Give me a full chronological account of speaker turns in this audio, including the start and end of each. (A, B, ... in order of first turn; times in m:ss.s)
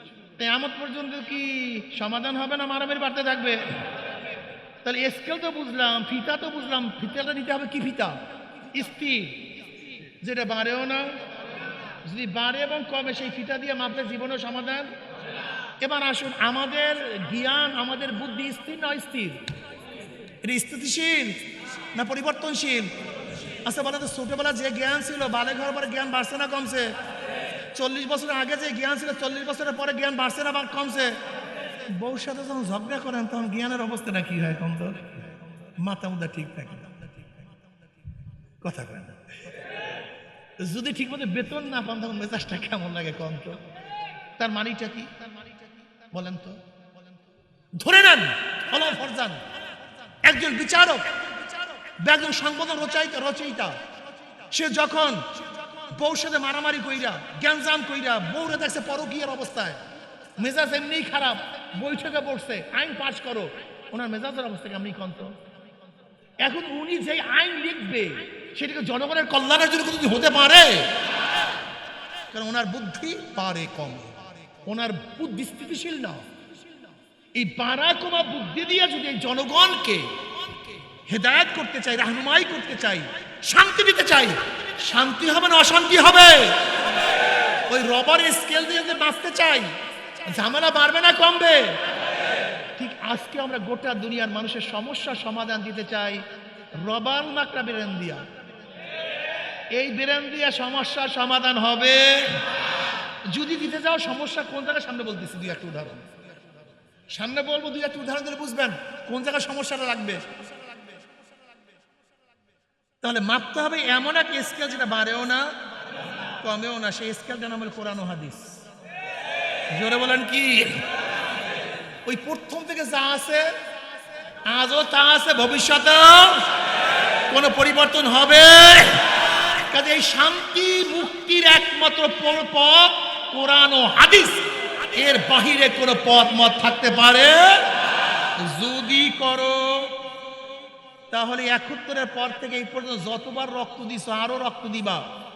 0:00.4-0:03.9 A
0:04.8-0:08.2 A
0:08.7-0:09.5 A
0:10.2-0:11.2 A
0:12.0-0:14.9 A
0:15.8-0:19.4 A
0:20.4-0:21.4 A
0:21.9-0:22.9 A
0:23.6-0:27.0 A
0:27.7-0:31.2 A
0:31.8-0:37.3 A
0:38.6-0:39.5 A
0:40.6-0:43.7 A
0:44.4-0:45.2 A
0:46.0-0:46.6 A
0:47.7-0:49.4 A
0:50.2-0:51.3 A
0:51.8-0:53.8 A
0:54.5-0:59.8 A
1:00.4-1:05.4 A
1:06.4-1:10.9 A
1:12.3-1:16.3 A
1:17.3-1:20.2 A
1:21.0-1:26.9 A
1:27.7-1:29.7 A
1:30.2-1:31.8 A
1:32.7-1:36.2 A
1:36.7-1:38.2 A
1:39.7-1:42.4 A
1:43.3-1:46.2 A
1:47.1-1:50.2 A
1:53.0-1:55.5 A
1:56.4-1:58.6 A
1:59.7-2:00.8 A
2:02.0-2:03.5 A
2:04.4-2:06.5 A
2:07.3-2:17.8 A
2:18.4-2:20.0 A
2:21.1-2:25.0 A